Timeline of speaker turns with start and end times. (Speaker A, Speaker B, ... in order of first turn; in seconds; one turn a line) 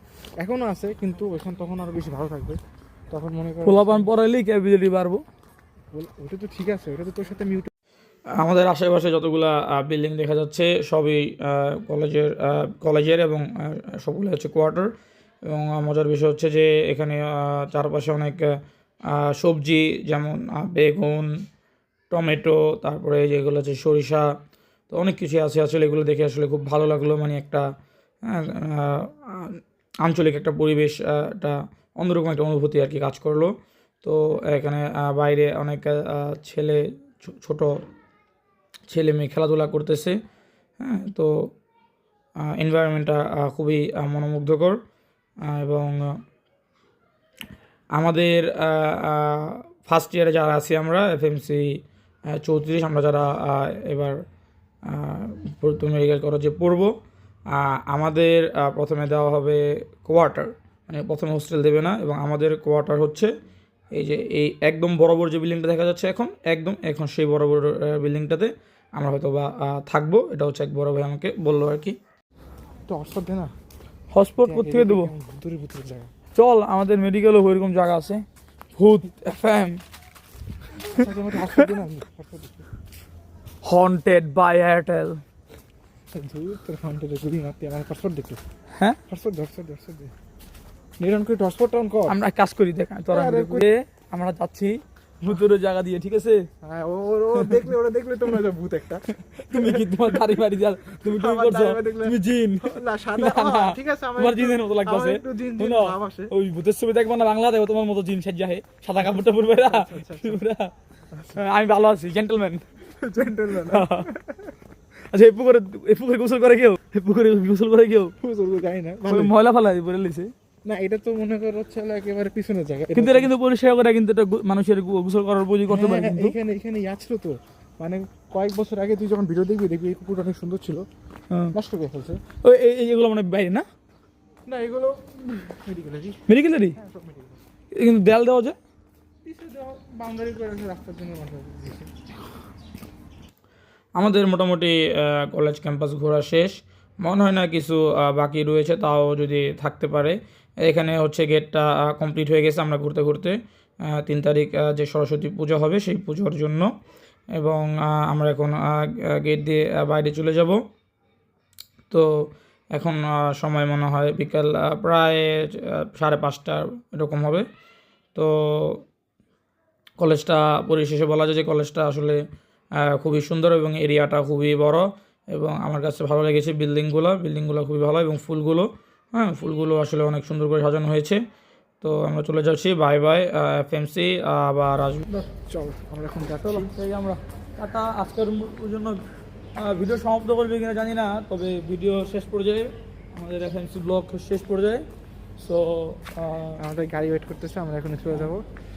Speaker A: 0.4-2.6
Speaker A: 3.1-4.1
Speaker B: 3.6-5.2
Speaker A: 5.9-7.7
Speaker B: 8.4-14.9
Speaker B: 15.4-18.5
Speaker B: 19.1-21.3
Speaker B: 22.1-24.3
Speaker B: 24.9-27.6
Speaker B: 28.2-33.5
Speaker B: 34.0-37.8
Speaker B: 38.9-40.2
Speaker B: 40.8-41.3
Speaker B: 42.4-44.8
Speaker B: 45.4-46.1
Speaker B: 47.9-51.6
Speaker B: 52.3-54.2
Speaker B: 54.9-56.9
Speaker B: 57.5-63.3
Speaker B: 63.9-72.0
Speaker A: 72.9-73.5
Speaker B: 74.1-75.1
Speaker A: 74.4-76.1
Speaker B: 76.3-78.2
Speaker B: 78.7-79.8
Speaker A: 80.9-82.7
Speaker B: 83.6-85.2
Speaker A: 86.1-88.4
Speaker B: 88.7-89.0
Speaker A: 89.1-90.1
Speaker A: 91.0-92.2
Speaker B: 92.1-96.4
Speaker A: 93.1-93.7
Speaker A: 96.6-100.4
Speaker B: 99.4-110.7
Speaker A: 101.0-106.3
Speaker A: 109.2-110.4
Speaker A: 111.1-111.4
Speaker B: 111.3-112.7
Speaker A: 113.0-114.5
Speaker B: 113.6-114.1
Speaker B: 115.1-118.1
Speaker A: 118.2-119.3
Speaker B: 119.0-120.3
Speaker A: 120.6-123.3
Speaker B: 122.9-126.3
Speaker A: 125.7-130.8
Speaker A: 131.5-132.2
Speaker B: 132.4-133.6
Speaker A: 134.5-137.4
Speaker B: 136.3-136.8
Speaker B: 137.7-138.6
Speaker A: 139.2-141.9
Speaker B: 143.9-153.4
Speaker B: 153.9-156.7
Speaker B: 157.3-160.6
Speaker B: 161.9-167.4
Speaker B: 168.1-168.8
Speaker B: 170.0-172.2
Speaker B: 172.8-181.2
Speaker B: 181.8-185.2
Speaker A: 185.3-186.7
Speaker B: 186.4-189.0
Speaker B: 189.6-194.8
Speaker B: 195.4-196.6
Speaker A: 196.6-198.4